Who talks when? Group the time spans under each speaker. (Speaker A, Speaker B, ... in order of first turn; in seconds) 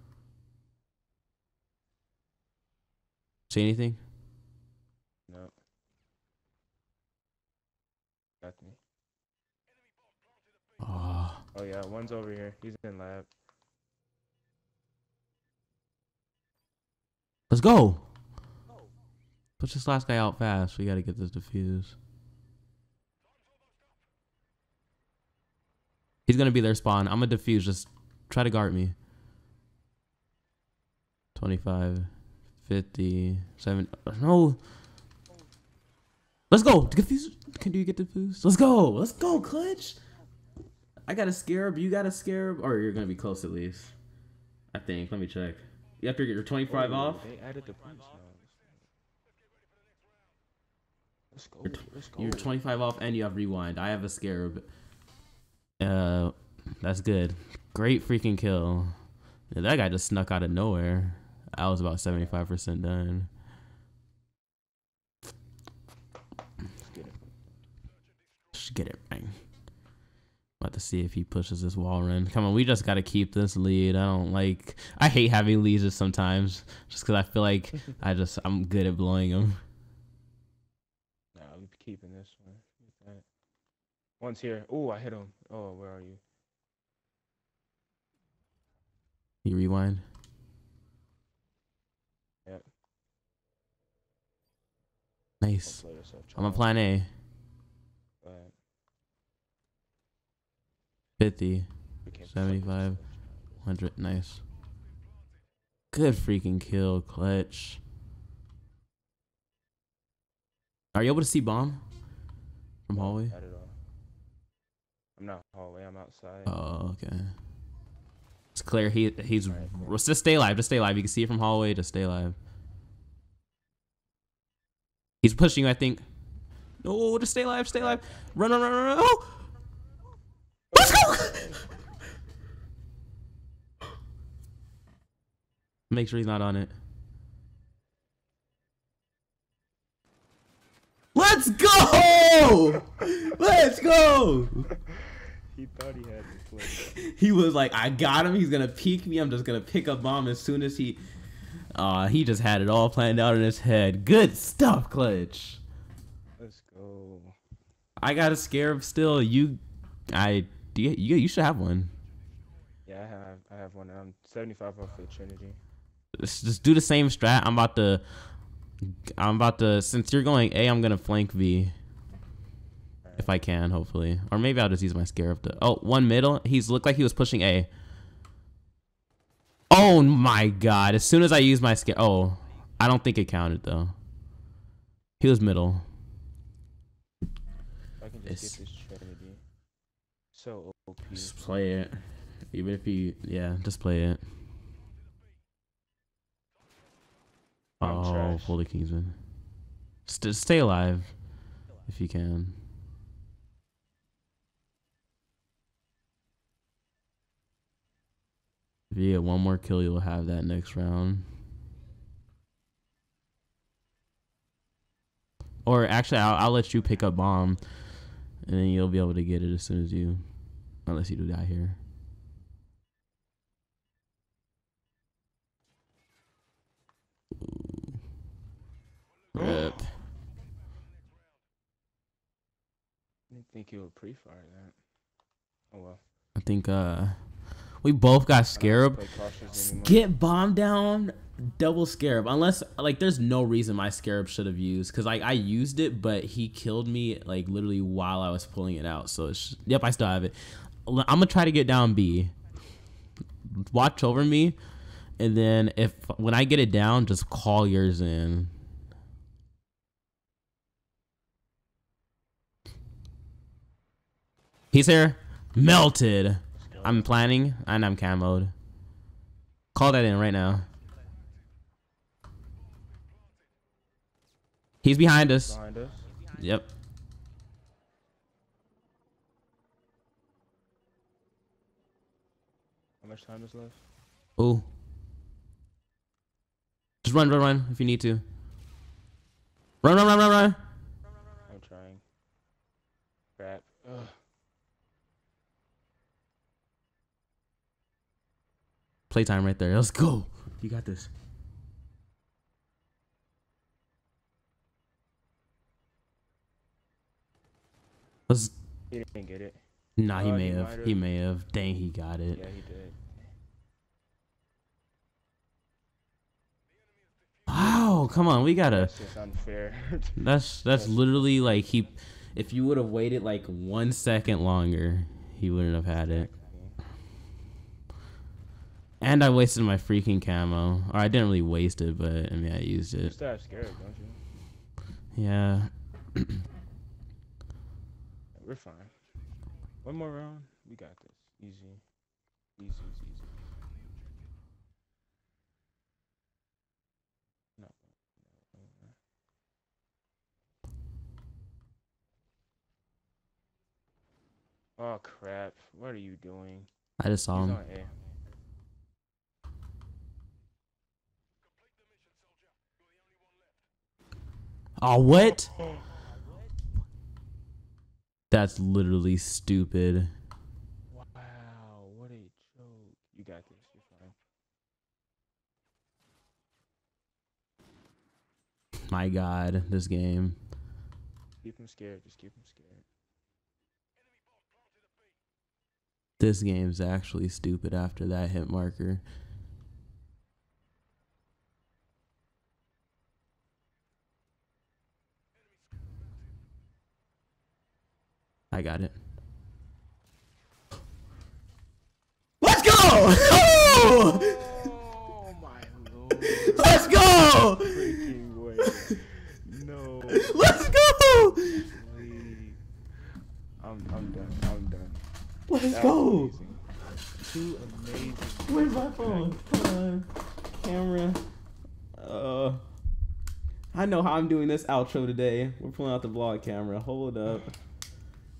Speaker A: 3.5-4.0, 10.8-11.4, 17.5-18.0, 19.6-22.0, 26.3-28.9, 31.4-32.1, 32.6-34.6, 36.5-40.0, 41.1-43.9, 44.7-47.2, 51.7-54.7, 55.8-59.0, 59.5-63.3, 68.5-69.4, 70.6-79.6, 89.4-90.0, 95.4-97.1, 101.2-101.7, 102.3-103.0, 103.6-104.4, 105.9-107.8, 110.9-111.8, 112.9-113.3, 116.5-117.3, 118.5-122.4, 125.2-126.0, 126.8-129.4, 130.8-131.5, 135.9-136.7, 141.2-144.7, 146.8-151.0, 151.7-155.6, 158.0-159.6, 160.1-161.9, 166.2-168.0, 168.8-171.7, 173.2-177.7, 179.7-183.9, 185.2-185.8, 188.3-188.6, 191.1-194.2, 197.8-199.2, 200.1-201.2, 201.8-202.6, 208.9-211.2, 215.7-217.6, 218.4-220.2, 220.8-221.8, 229.3-229.9, 236.4-237.2, 237.8-239.0, 239.5-252.3, 253.7-254.6, 255.2-258.5, 264.7-268.5, 269.7-270.7, 274.8-275.6, 276.3-276.7, 284.4-284.7, 287.0-288.2, 289.8-290.6, 299.1-301.1, 308.3-308.6, 310.0-312.4, 317.5-318.9, 320.2-326.3, 329.0-333.1, 335.2-336.4, 357.0-357.6, 364.8-365.5, 368.3-370.1, 378.9-380.4, 386.2-389.0, 398.5-398.9, 402.4-404.4, 406.2-408.1, 410.1-411.6, 415.5-416.3, 418.5-421.2, 422.0-422.6, 423.7-427.5
Speaker B: 5.3-5.5, 8.4-8.8, 11.5-13.3, 39.2-39.5, 46.7-48.8, 51.3-52.5, 62.1-62.4, 66.9-67.2, 81.3-83.2, 84.2-86.2, 95.6-96.7, 98.2-98.5, 102.0-103.4, 112.9-113.8, 115.2-116.6, 119.5-120.0, 130.7-131.6, 144.7-146.9, 156.4-157.3, 162.9-165.6, 173.0-173.4, 188.0-189.4, 190.3-191.4, 197.8-198.6, 233.3-234.8, 235.7-236.0, 238.6-240.1, 266.6-267.1, 275.4-276.1, 283.0-283.8, 291.5-292.0, 293.4-294.1, 308.9-309.6, 310.1-311.0, 312.3-313.3, 317.5-321.4, 325.9-326.8, 333.0-334.2, 338.4-338.9, 339.8-341.8, 342.6-343.3, 347.6-348.9, 354.8-356.7, 357.3-357.9, 370.9-374.1, 381.4-382.9, 403.4-412.6, 413.6-415.1, 415.7-416.6, 417.2-419.4